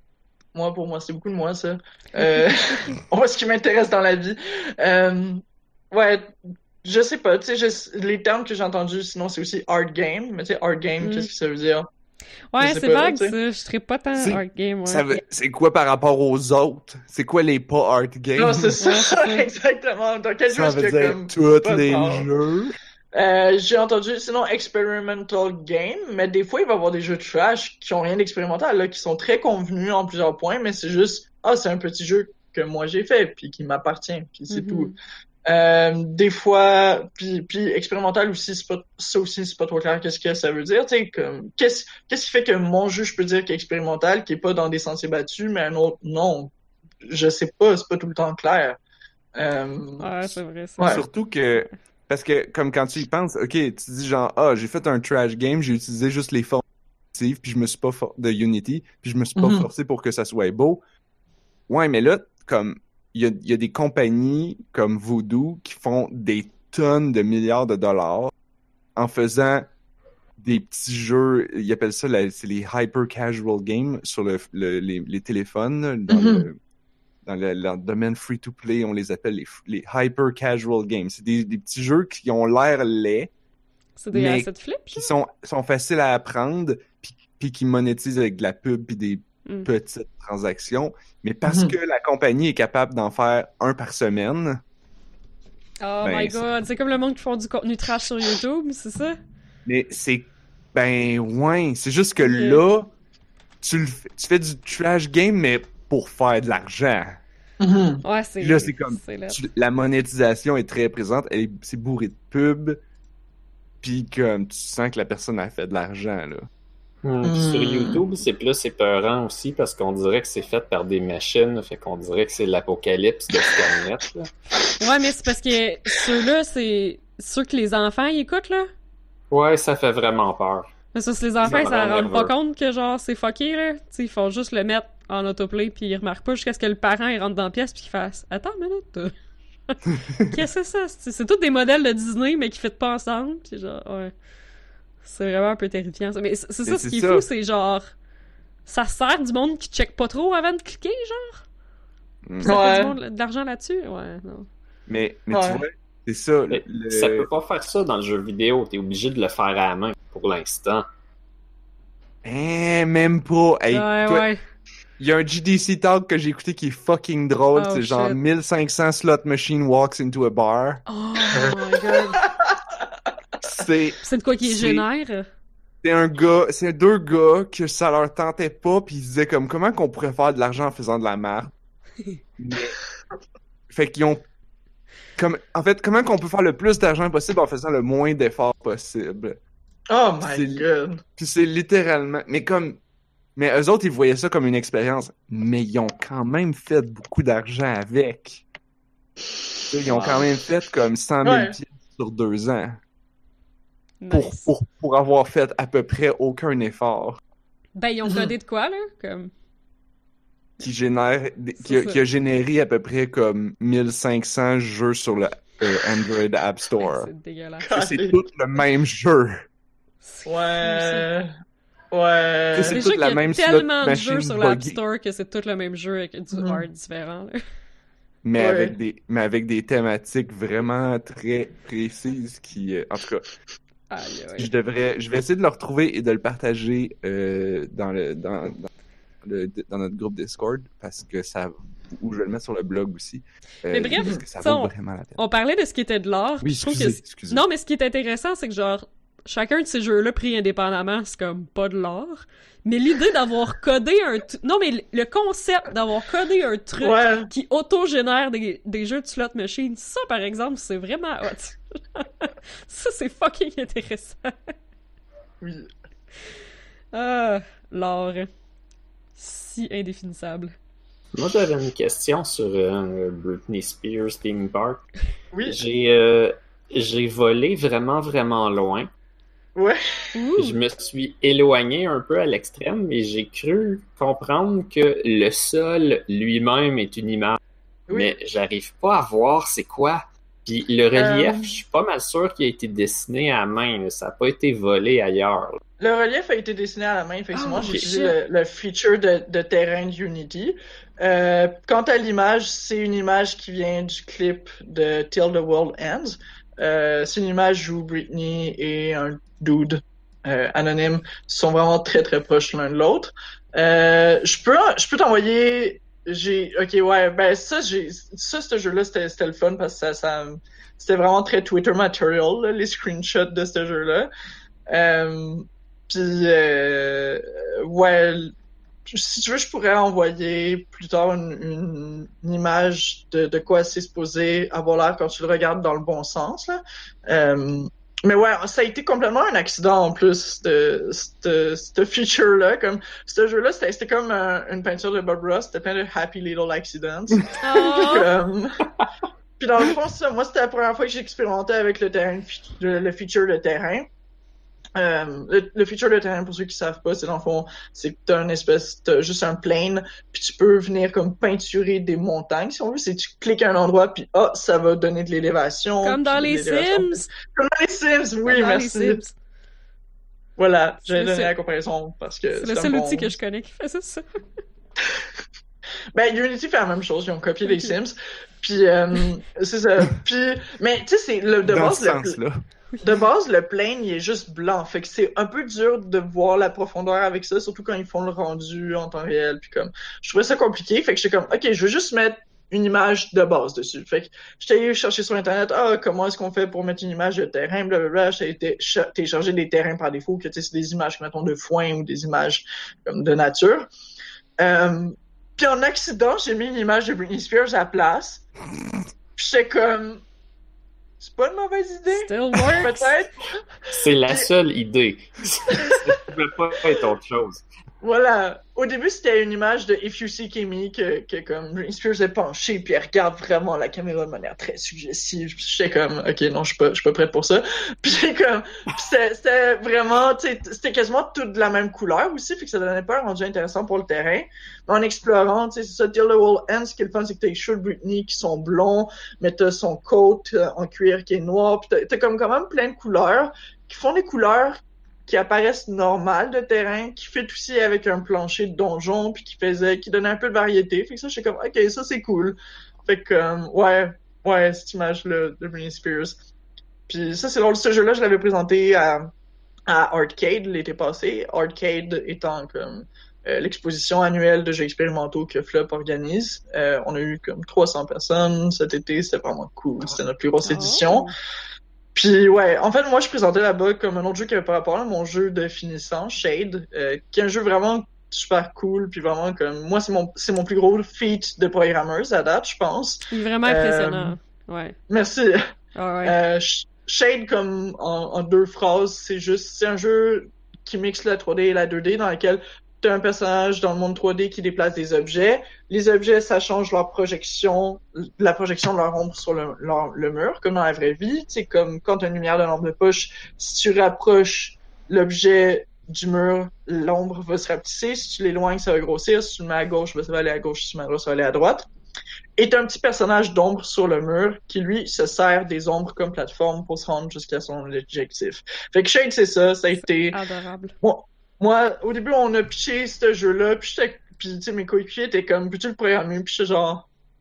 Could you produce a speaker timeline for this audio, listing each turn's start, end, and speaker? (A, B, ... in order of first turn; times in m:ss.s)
0:00.5-0:11.9 A
0:11.0-0:11.3 B
0:12.5-0:15.1 B
0:12.6-0:13.3 A
0:14.1-0:18.8 C
0:18.4-0:22.3 A
0:18.8-0:19.4 B
0:20.5-0:22.8 C
0:23.1-0:34.9 A
0:34.5-0:34.9 B
0:35.4-0:46.5 A
0:47.0-0:48.8 A
0:49.4-0:50.2 A
0:50.0-0:51.7 B
0:50.8-0:51.0 A
0:50.9-0:56.6 C
0:57.1-1:00.8 C
0:59.4-0:59.7 A
1:01.7-1:08.3 C
1:09.0-1:09.7 C
1:10.4-1:16.6 C
1:16.1-1:16.5 A
1:17.2-1:23.3 C
1:24.0-1:25.1 B
1:24.1-1:34.6 C
1:31.4-1:31.8 A
1:35.8-1:39.2 B
1:36.0-1:36.4 C
1:39.6-1:42.9 C
1:42.2-1:42.6 B
1:43.6-1:47.2 C
1:47.6-1:48.0 A
1:48.0-1:49.4 B
1:48.4-1:52.8 C
1:53.8-1:56.5 C
1:57.0-2:04.3 D
1:57.2-1:58.0 A
2:04.8-2:08.7 B
2:09.3-2:10.7 D
2:10.9-2:19.2 B
2:11.4-2:12.3 D
2:19.7-2:24.1 B
2:25.0-2:27.8 B
2:26.7-2:27.2 C
2:28.7-2:31.4 B
2:32.2-2:32.6 C
2:32.4-2:34.5 B
2:32.4-2:33.0 A
2:34.9-2:37.3 C
2:35.3-2:35.6 A
2:36.5-2:40.9 D
2:42.2-2:44.3 C
2:43.7-2:44.4 B
2:45.0-2:50.8 C
2:47.5-2:48.2 B
2:50.9-2:52.2 B
2:51.3-2:52.6 A
2:53.4-2:54.8 C
2:54.0-2:55.2 B
2:55.8-3:01.5 C
3:02.4-3:02.8 C
3:03.7-3:04.2 C
3:05.2-3:09.4 C
3:09.9-3:11.0 A
3:10.2-3:10.6 C
3:11.2-3:12.8 C
3:13.4-3:18.4 C
3:19.7-3:22.8 C
3:19.9-3:20.2 D
3:21.2-3:21.6 A
3:24.0-3:24.5 B
3:24.1-3:27.2 C
3:27.8-3:29.3 B
3:28.0-3:28.3 A
3:30.6-3:37.1 C
3:31.6-3:32.0 B
3:36.8-3:37.7 B
3:37.6-3:38.2 A
3:37.7-3:39.5 C
3:40.0-3:41.0 B
3:40.2-3:41.3 A
3:41.9-3:42.8 A
3:42.5-3:44.8 C
3:42.7-3:47.4 B
3:46.3-3:46.6 A
3:48.2-3:53.3 C
3:48.4-3:48.8 A
3:53.9-3:54.5 B
3:54.4-3:58.7 C
3:59.2-4:05.2 C
4:03.7-4:24.5 B
4:06.4-4:07.4 C
4:16.8-4:17.3 A
4:25.4-4:25.7 A
4:26.9-4:28.3 B
4:29.2-4:30.5 B
4:31.1-4:34.9 D
4:35.3-4:35.6 A
4:35.4-4:38.9 D
4:39.6-4:40.1 A
4:40.2-4:40.6 B
4:40.4-4:47.4 D
4:47.9-4:48.1 A
4:47.9-4:55.6 D
4:50.9-4:51.4 A
4:55.8-5:24.1 A
4:57.3-4:58.1 B
5:24.7-5:28.3 A
5:28.8-5:48.7 A
5:47.4-5:48.1 B
5:49.4-5:53.9 A
5:54.7-6:09.0 A
6:05.8-6:07.1 B
6:08.3-6:09.1 B
6:10.4-6:13.1 A
6:10.8-6:11.3 B
6:12.3-6:14.0 B
6:15.9-6:22.2 A
6:17.4-6:17.7 B
6:21.4-6:22.4 C
6:22.8-6:43.7 A
6:44.4-6:48.2 A
6:49.2-6:50.0 A
6:51.0-6:54.3 A
6:51.9-6:52.9 B
6:53.7-6:57.4 D
6:55.5-6:55.9 A
6:57.8-7:36.2 A
7:36.9-7:39.1 A
7:39.7-7:51.1 A
7:50.4-7:51.1 B
7:51.9-8:04.2 A
8:03.1-8:04.8 B
8:04.9-8:05.4 A
8:05.7-8:06.2 B
8:06.0-8:31.7 A
8:32.4-8:40.2 A
8:40.0-8:40.7 B
8:40.8-8:46.9 A